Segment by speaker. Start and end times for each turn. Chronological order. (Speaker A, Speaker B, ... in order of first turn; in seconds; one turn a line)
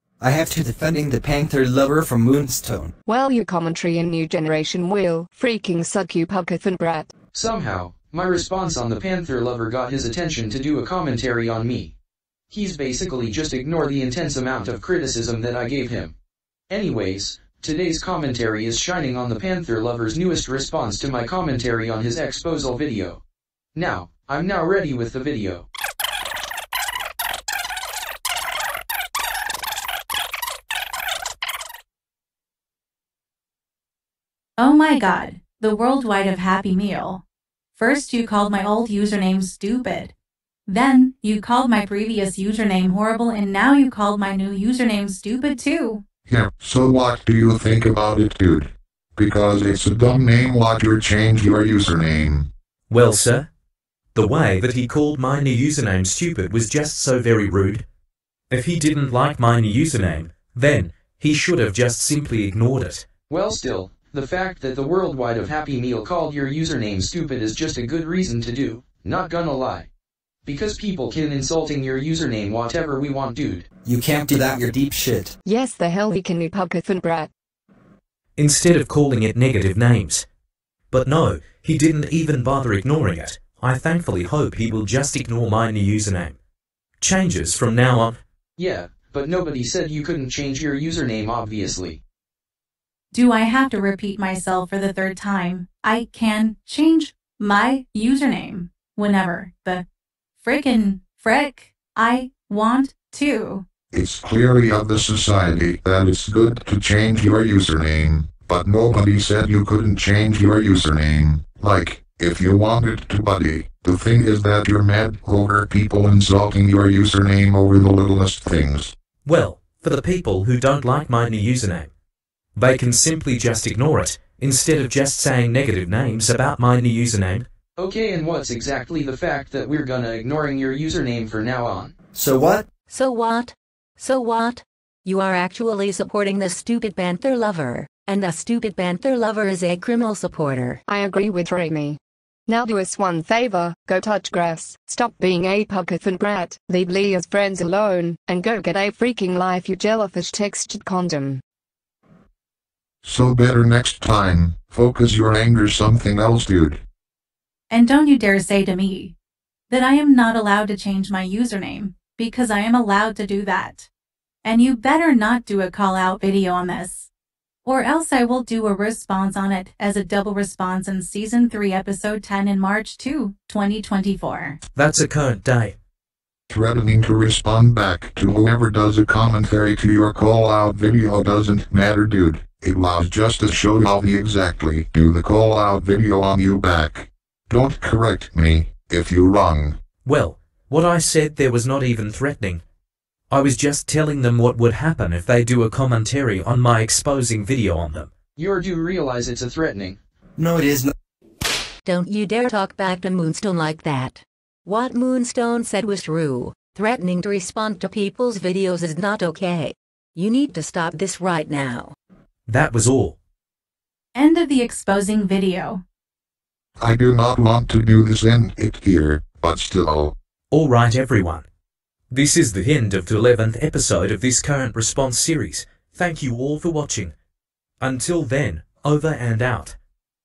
Speaker A: 0.2-2.9
Speaker B: 3.1-7.1
Speaker C: 7.3-11.9
Speaker C: 12.5-16.1
Speaker C: 16.7-23.2
Speaker C: 23.8-25.7
Speaker D: 34.6-37.2
Speaker D: 37.8-40.1
Speaker D: 40.7-46.0
Speaker E: 46.3-52.5
Speaker F: 52.9-53.5
Speaker F: 54.1-57.8
Speaker F: 58.5-63.1
Speaker C: 63.3-69.9
Speaker C: 70.5-73.7
Speaker A: 73.8-75.4
Speaker B: 75.5-77.3
Speaker F: 78.4-80.3
Speaker F: 80.9-86.4
Speaker F: 87.0-88.2
Speaker C: 88.6-92.0
Speaker D: 93.1-99.8
Speaker D: 100.4-103.6
Speaker E: 103.9-118.9
Speaker F: 119.2-121.9
Speaker F: 122.6-127.5
Speaker C: 127.8-131.9
Speaker A: 132.1-132.7
Speaker G: 132.9-140.8
Speaker B: 140.9-151.4
Speaker E: 153.0-156.8
Speaker D: 157.7-159.2
Speaker D: 159.7-163.9
Speaker D: 164.4-167.1
Speaker D: 167.7-174.6
Speaker F: 174.8-175.8
Speaker E: 176.5-189.8
Speaker F: 190.0-192.6
Speaker F: 193.3-198.1
Speaker C: 198.4-200.0
Speaker A: 200.4-200.9
Speaker G: 201.8-211.9
Speaker F: 212.5-213.2
Speaker D: 214.2-215.8
Speaker E: 216.8-220.2
Speaker F: 220.5-221.4
Speaker F: 222.1-227.1
Speaker F: 227.8-229.8